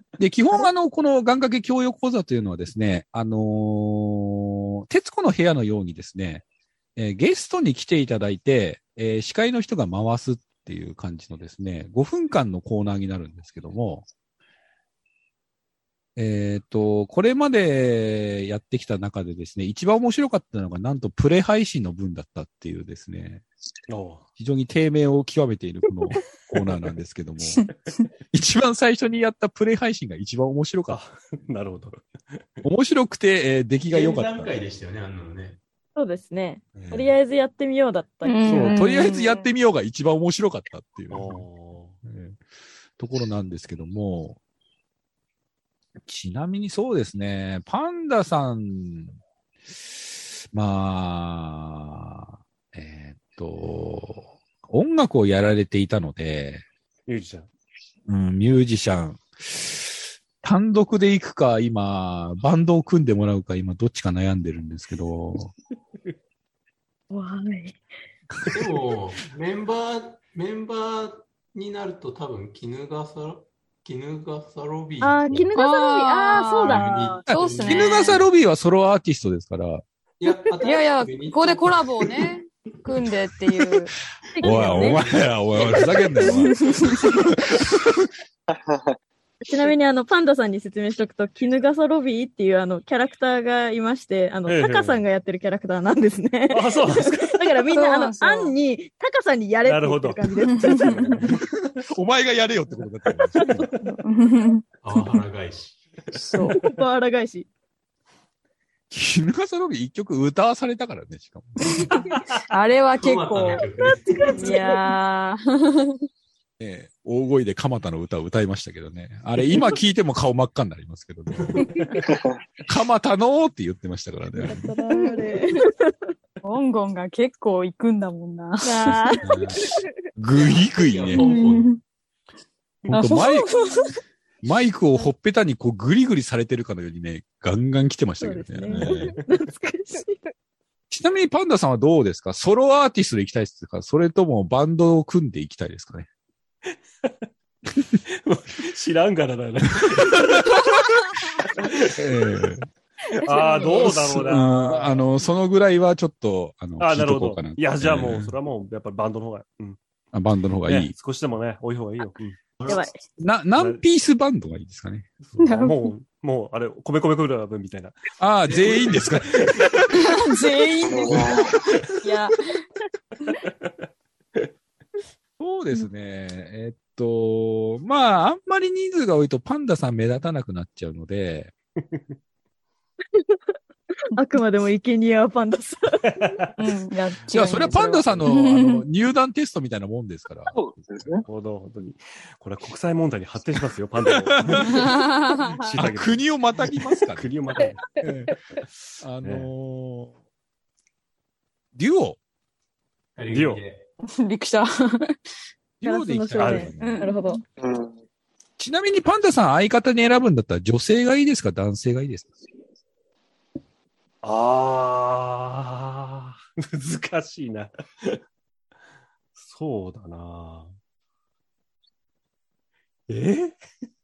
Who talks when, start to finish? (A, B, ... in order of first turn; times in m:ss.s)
0:00.2-0:06.4 A
0:07.0-0:14.1 A
0:16.2-0:23.4 A
0:23.9-0:24.2 B
0:24.4-0:27.7 A
0:26.6-0:26.9 B
0:28.3-0:31.0 A
0:30.9-0:32.4 B
0:32.6-0:34.5 A
0:33.9-0:35.6 C
0:36.0-0:38.8 D
0:36.8-0:37.0 B
0:36.8-0:37.1 A
0:38.2-0:39.4 E
0:38.5-0:41.5 A
0:41.1-0:42.0 B
0:42.0-0:42.4 A
0:43.0-0:44.4 A
0:46.0-0:49.2 A
0:50.5-0:56.6 A
0:57.1-0:57.5 B
0:58.1-1:05.5 A
1:07.1-1:07.8 D
1:08.5-1:15.5 C
1:15.0-1:16.8 D
1:15.5-1:18.2 E
1:16.6-1:18.2 C
1:17.3-1:19.8 A
1:20.2-1:22.3 C
1:20.6-1:23.9 E
1:22.9-1:23.2 C
1:24.4-1:25.0 D
1:24.4-1:26.3 C
1:24.4-1:27.8 A
1:25.7-1:26.4 D
1:26.5-1:27.1 E
1:28.5-1:28.9 F
1:29.4-1:41.3 D
1:34.5-1:35.0 B
1:36.5-1:37.2 B
1:37.7-1:38.5 E
1:39.6-1:40.9 B
1:40.6-1:41.0 E
1:41.0-1:41.4 C
1:41.9-1:43.7 A
1:43.4-1:43.7 B
1:44.0-1:44.6 E
1:44.8-1:45.8 C
1:46.3-1:46.6 E
1:46.3-1:47.5 D
1:48.9-1:51.9 A
1:52.5-1:53.7 E
1:53.0-1:54.6 C
1:53.9-1:54.8 D
1:54.3-1:56.0 E
1:56.6-2:01.7 A
2:01.3-2:01.9 C
2:02.7-2:04.6 A
2:04.4-2:05.7 D
2:04.9-2:05.4 E
2:06.4-2:09.2 E
2:08.6-2:09.2 D
2:09.2-2:09.6 A
2:10.2-2:11.2 A
2:10.3-2:11.8 C
2:11.1-2:11.8 E
2:12.9-2:13.6 A
2:12.9-2:13.9 E
2:14.4-2:19.2 A
2:18.2-2:20.2 D
2:20.9-2:26.1 A
2:28.1-2:30.6 B
2:31.4-2:32.5 B
2:31.9-2:32.7 A
2:33.2-2:35.0 B
2:33.3-2:33.7 D
2:33.7-2:38.4 A
2:36.8-2:39.8 B
2:40.1-2:41.0 A
2:40.7-2:42.4 B
2:42.7-2:43.0 D
2:43.2-2:45.1 A
2:43.6-2:43.8 B
2:45.2-2:49.6 B
2:45.4-2:45.9 E
2:48.2-2:50.1 A
2:48.5-2:49.1 C
2:50.0-2:51.4 E
2:50.8-2:51.6 F
2:52.0-2:52.3 D
2:52.0-2:52.3 E
2:55.4-3:01.5 A
3:04.2-3:06.2 D
3:06.2-3:06.5 B
3:06.6-3:08.8 E
3:07.3-3:10.7 A
3:07.4-3:08.2 B
3:10.5-3:11.2 F
3:11.3-3:15.0 B
3:14.5-3:14.9 A
3:14.6-3:15.8 E
3:15.6-3:16.3 B
3:15.8-3:17.3 A
3:17.2-3:17.8 B
3:18.0-3:18.3 A
3:19.0-3:20.1 A
3:19.2-3:19.5 B
3:21.7-3:22.2 A
3:23.2-3:23.9 C
3:23.3-3:23.6 B
3:24.1-3:25.2 E
3:25.8-3:27.1 A
3:25.8-3:27.4 D
3:26.4-3:26.7 B
3:26.8-3:27.4 E
3:27.6-3:28.0 F
3:28.6-3:32.3 A
3:34.2-3:38.2 B
3:39.4-3:40.7 B
3:43.1-3:43.6 B